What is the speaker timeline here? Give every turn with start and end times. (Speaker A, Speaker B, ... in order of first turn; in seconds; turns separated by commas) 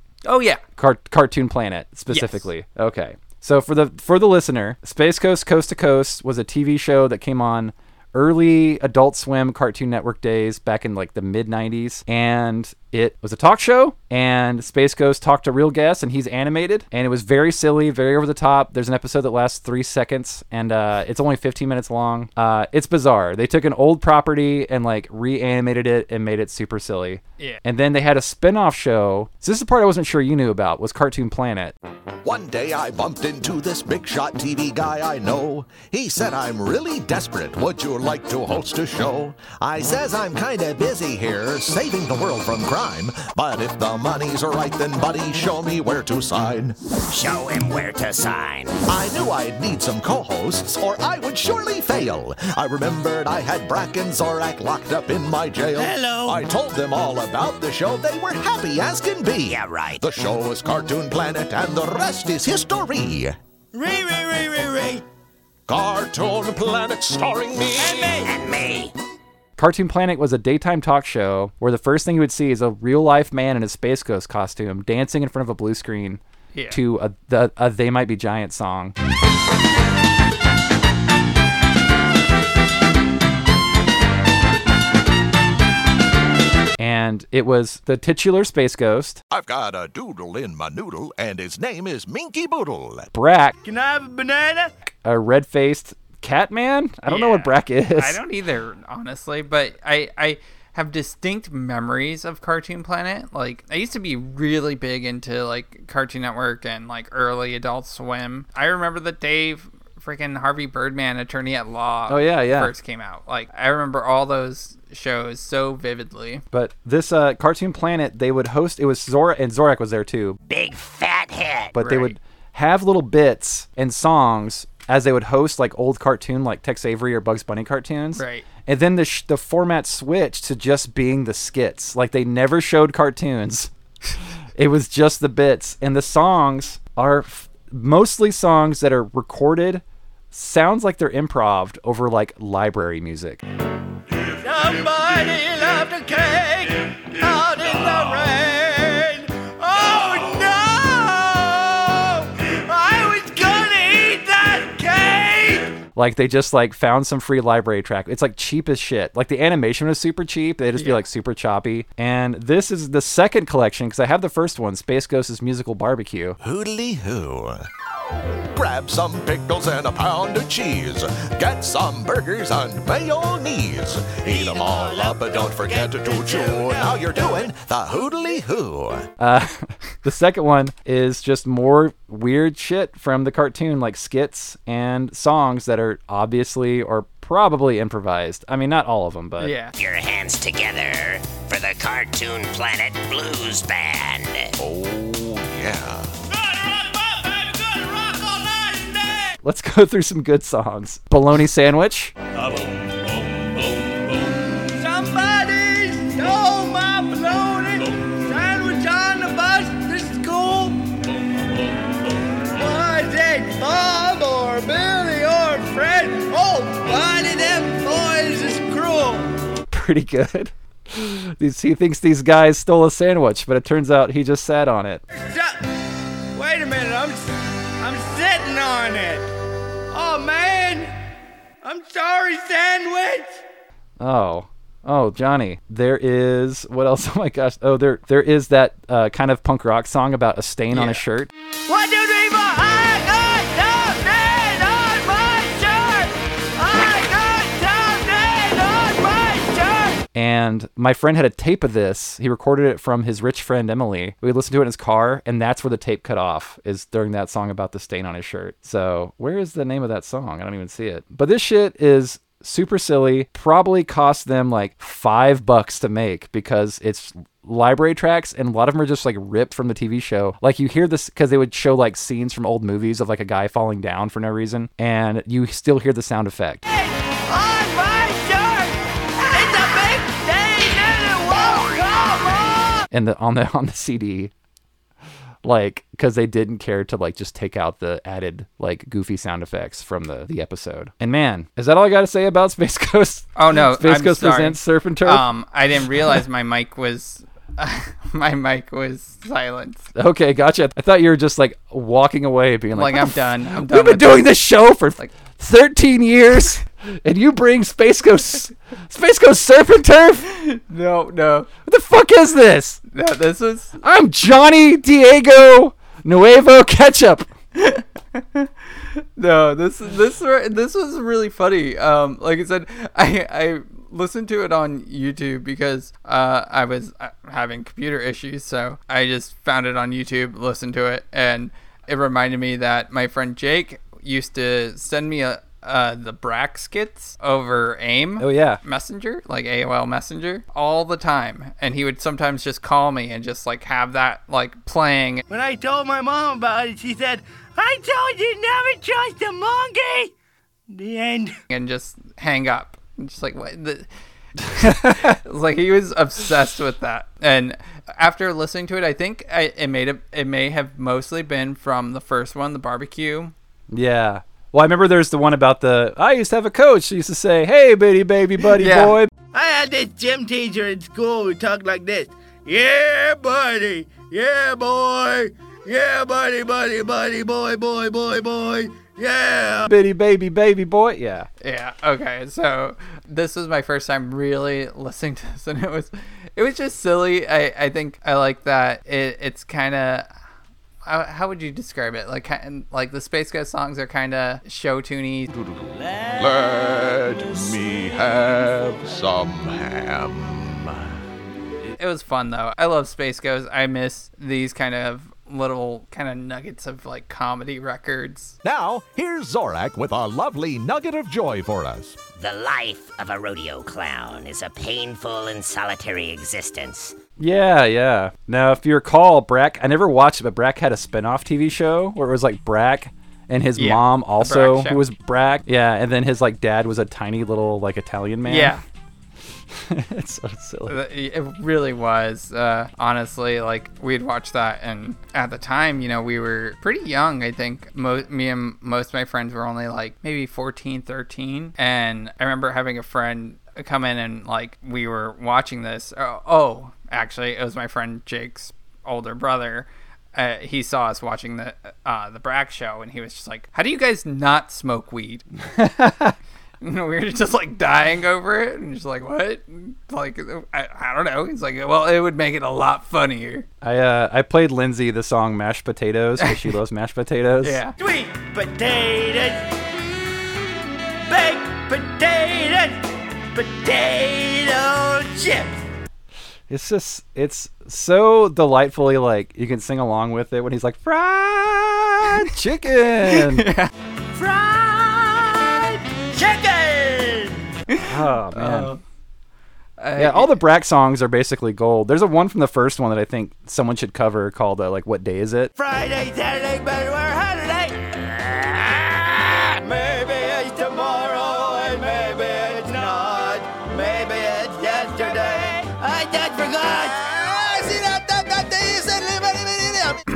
Speaker A: 0.2-0.6, Speaker B: 0.8-31.8, Speaker A: 2.1-2.5, Speaker C: 32.2-46.8, Speaker D: 47.1-48.8, Speaker C: 48.9-63.4, Speaker E: 55.8-56.4, Speaker D: 59.5-60.1, Speaker E: 63.7-65.0, Speaker C: 65.7-68.2, Speaker E: 67.8-68.3, Speaker D: 68.2-68.9, Speaker B: 69.6-79.0, Speaker A: 76.5-76.8, Speaker B: 86.8-89.2, Speaker C: 89.3-93.1, Speaker B: 93.1-93.5, Speaker E: 93.6-94.7, Speaker B: 95.0-98.2, Speaker A: 97.1-116.4, Speaker B: 112.1-112.7, Speaker B: 116.5-120.4, Speaker D: 120.5-121.7, Speaker B: 121.7-133.7, Speaker A: 121.8-122.2, Speaker A: 128.2-128.4, Speaker B: 134.6-143.4, Speaker E: 144.4-155.8, Speaker B: 155.9-166.4, Speaker A: 160.8-161.0, Speaker C: 166.4-167.6, Speaker C: 168.5-179.1, Speaker E: 174.2-177.5, Speaker B: 179.2-189.6, Speaker A: 189.4-189.8, Speaker D: 189.8-194.5, Speaker C: 194.6-196.1, Speaker E: 196.3-199.4, Speaker B: 199.4-202.1, Speaker E: 204.6-211.0, Speaker E: 212.5-219.3, Speaker B: 219.7-225.0, Speaker E: 225.2-225.7, Speaker E: 226.3-229.3, Speaker E: 229.9-230.9, Speaker E: 231.6-233.4, Speaker B: 234.0-241.3, Speaker A: 240.7-241.0, Speaker E: 241.7-250.0, Speaker B: 250.1-276.6, Speaker E: 276.7-282.9, Speaker B: 282.9-284.3, Speaker B: 285.4-295.3, Speaker A: 293.4-299.9, Speaker B: 299.9-310.3, Speaker A: 302.8-304.3, Speaker A: 310.3-311.5, Speaker B: 311.7-312.8, Speaker A: 312.9-313.8, Speaker B: 313.8-317.3, Speaker A: 317.6-345.2, Speaker B: 338.2-338.6, Speaker E: 345.3-350.1, Speaker E: 350.7-351.4, Speaker A: 351.5-353.9, Speaker A: 354.4-363.3, Speaker B: 354.5-355.2, Speaker B: 363.7-369.1, Speaker A: 368.6-369.0, Speaker E: 369.3-379.7, Speaker B: 379.7-381.3, Speaker A: 381.4-390.1, Speaker A: 390.9-395.3, Speaker C: 395.3-400.9, Speaker A: 401.7-408.4, Speaker C: 408.4-412.0, Speaker D: 412.0-416.9, Speaker B: 417.2-428.6, Speaker A: 423.6-424.8, Speaker A: 428.2-428.6, Speaker B: 429.5-430.8, Speaker A: 430.7-455.5, Speaker B: 455.6-456.1, Speaker A: 456.6-463.5, Speaker B: 463.6-467.6, Speaker A: 467.4-467.7, Speaker E: 467.8-469.4, Speaker E: 471.0-475.6, Speaker B: 476.5-483.5, Speaker A: 483.0-483.7, Speaker E: 484.1-487.4, Speaker A: 487.7-488.8, Speaker B: 487.9-488.8, Speaker A: 489.8-490.3, Speaker B: 490.0-495.5, Speaker E: 495.6-510.0